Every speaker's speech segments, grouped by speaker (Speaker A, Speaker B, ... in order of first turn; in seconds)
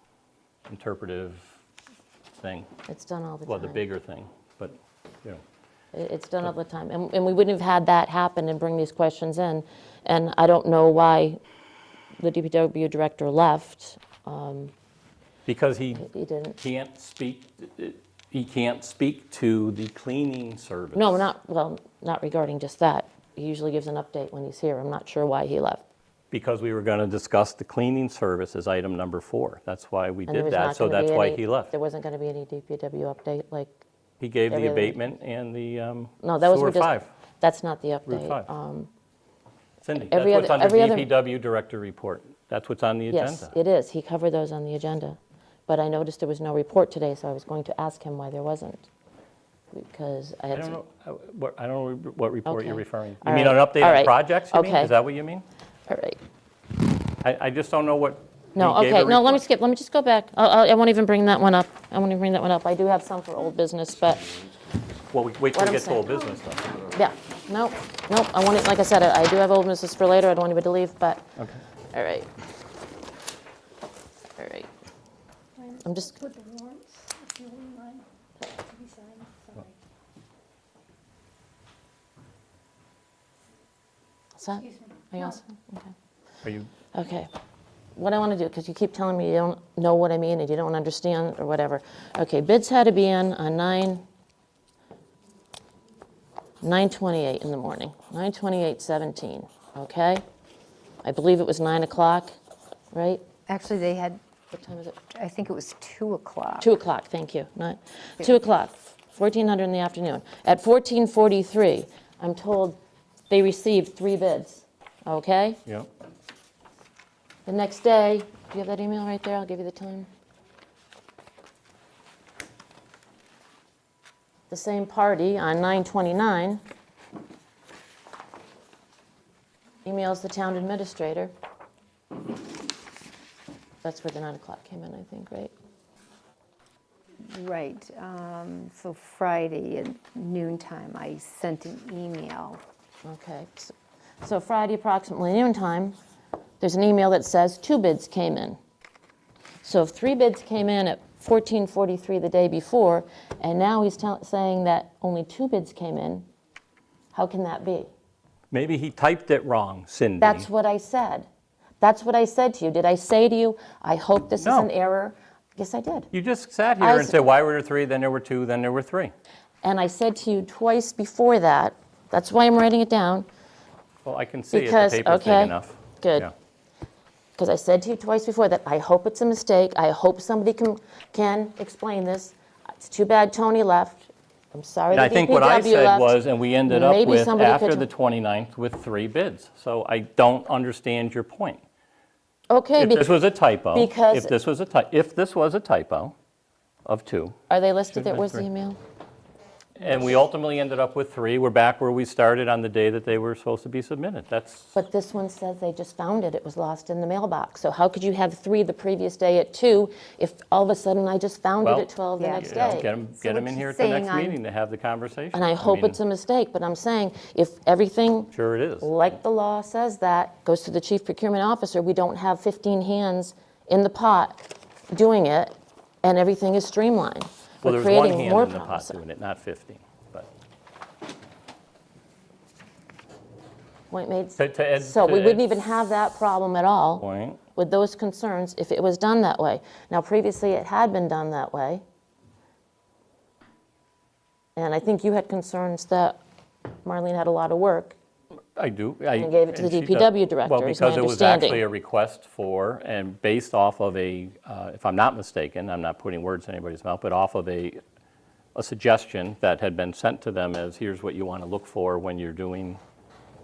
Speaker A: 0.7-1.6, 2.4-2.7, 3.5-5.4, 15.4-16.1, 16.6-21.3, 26.3-31.7, 34.2-37.1, 38.1-38.5, 39.8-43.5, 50.5-55.4, 57.2-59.4, 65.1-66.8, 71.4-71.6, 86.4-86.7, 158.5-160.5, 164.4-164.7, 166.1-169.1, 174.0-176.3, 184.9-191.6, 192.8-196.1, 196.8-197.4, 197.9-198.5, 199.8-204.8, 211.6-216.0, 218.3-218.9, 227.6-230.3, 234.4-235.5, 237.0-237.4, 248.6-257.8, 258.5-262.8
Speaker B: 2.9-3.8, 5.9-11.4, 12.2-14.7, 16.0-16.6, 20.9-25.8, 30.3-33.8, 34.5-35.0, 36.2-38.9, 40.1-41.1, 43.1-48.9, 49.7-50.8, 52.5-54.9, 55.9-56.2, 58.5-64.4, 65.5-66.1, 66.8-71.3, 71.9-72.3, 74.4-74.7, 75.7-76.3, 84.4-85.9, 86.9-87.3, 88.0-94.0, 96.6-100.2, 101.0-102.3, 102.9-103.2, 104.5-105.0, 106.6-112.8, 113.3-115.6, 117.5-120.1, 124.5-126.6, 129.8-131.3, 133.8-135.5, 143.0-145.9, 146.6-148.6, 149.6-156.3, 157.1-157.9, 160.2-161.3, 161.8-166.1, 166.8-167.3, 169.6-173.3, 174.5-176.3, 177.4-187.9, 192.5-193.2, 193.7-194.3, 197.5-198.8, 204.7-212.9, 215.3-229.0, 233.9-237.0, 237.5-241.8, 244.6-246.2, 246.8-248.0, 249.2-251.6
Speaker C: 76.3-77.9, 78.5-79.5
Speaker D: 103.5-104.2, 105.1-106.7, 137.2-142.6, 212.2-214.4